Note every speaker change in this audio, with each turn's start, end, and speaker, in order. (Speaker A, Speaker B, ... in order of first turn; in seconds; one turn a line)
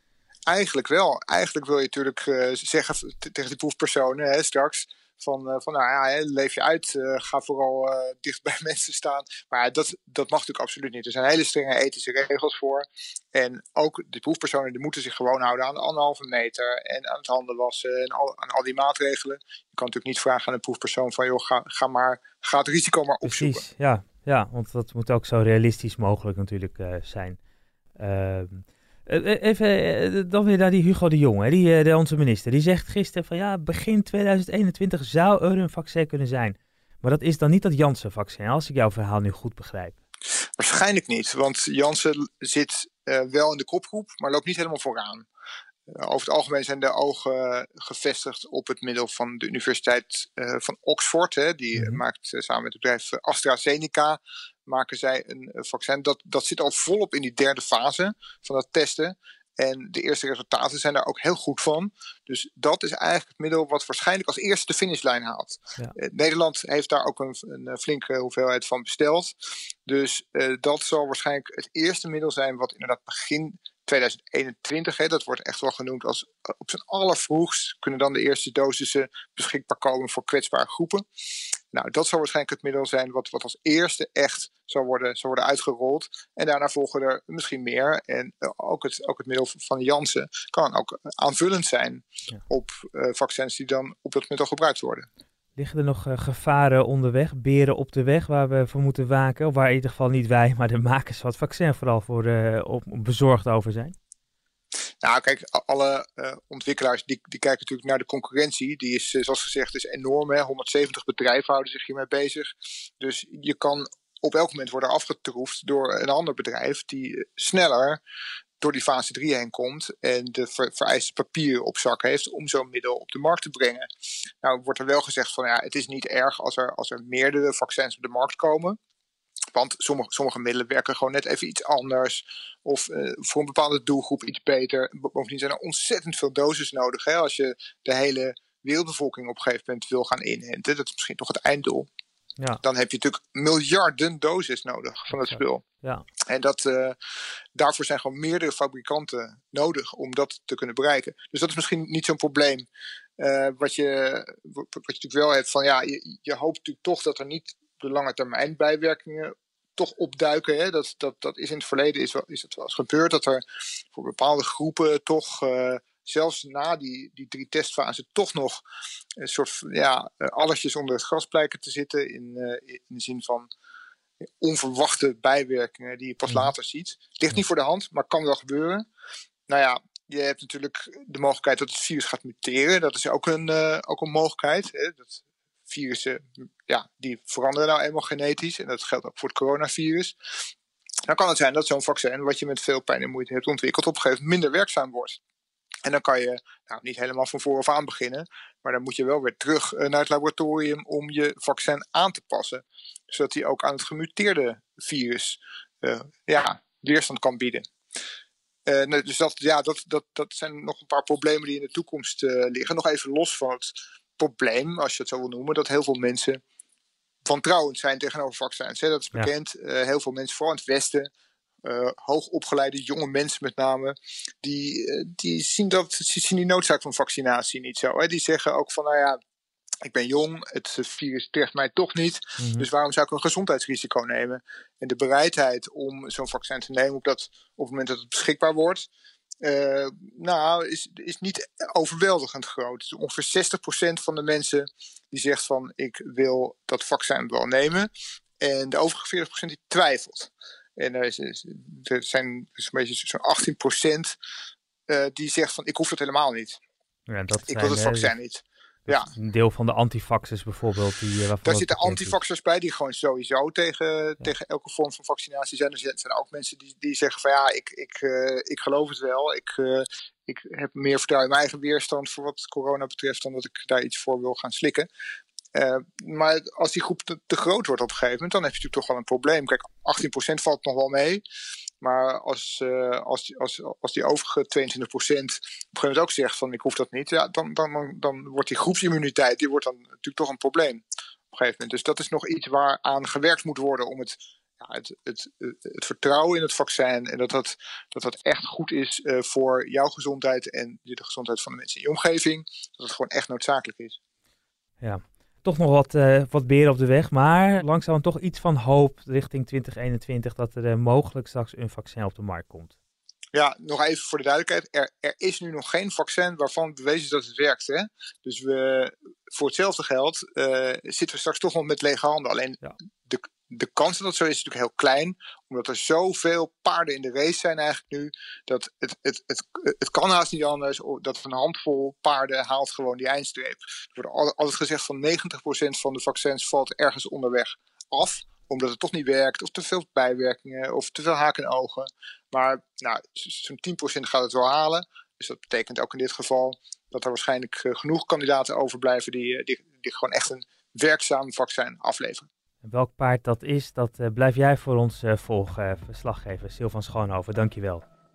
Speaker A: 0.5-23.6
Speaker B: 23.2-27.4
Speaker B: 28.0-40.0
Speaker A: 40.6-45.3
Speaker A: 45.9-69.3
Speaker B: 51.8-52.0
Speaker A: 69.9-81.0
Speaker A: 81.7-95.1
Speaker B: 95.6-104.0
Speaker A: 105.0-112.5
Speaker A: 113.0-118.0
Speaker A: 118.6-123.9
Speaker A: 124.4-128.8
Speaker A: 129.5-141.9
Speaker A: 142.6-145.6
Speaker B: 145.1-146.0
Speaker A: 146.3-147.0
Speaker A: 147.6-152.7
Speaker A: 153.2-168.6
Speaker A: 169.2-173.5
Speaker A: 174.4-178.8
Speaker A: 179.5-190.1
Speaker A: 191.1-195.2
Speaker A: 195.8-207.7
Speaker A: 208.7-216.4
Speaker A: 217.3-221.1
Speaker A: 221.6-229.2
Speaker A: 229.8-238.9
Speaker B: 232.4-232.7
Speaker A: 239.4-254.2
Speaker A: 254.9-256.6
Speaker B: 257.1-258.1
Speaker A: 257.5-259.1
Speaker B: 258.9-262.2
Speaker A: 261.4-274.9
Speaker A: 275.5-281.2
Speaker A: 281.8-304.0
Speaker B: 304.8-312.7
Speaker A: 313.3-352.3
Speaker B: 352.6-357.8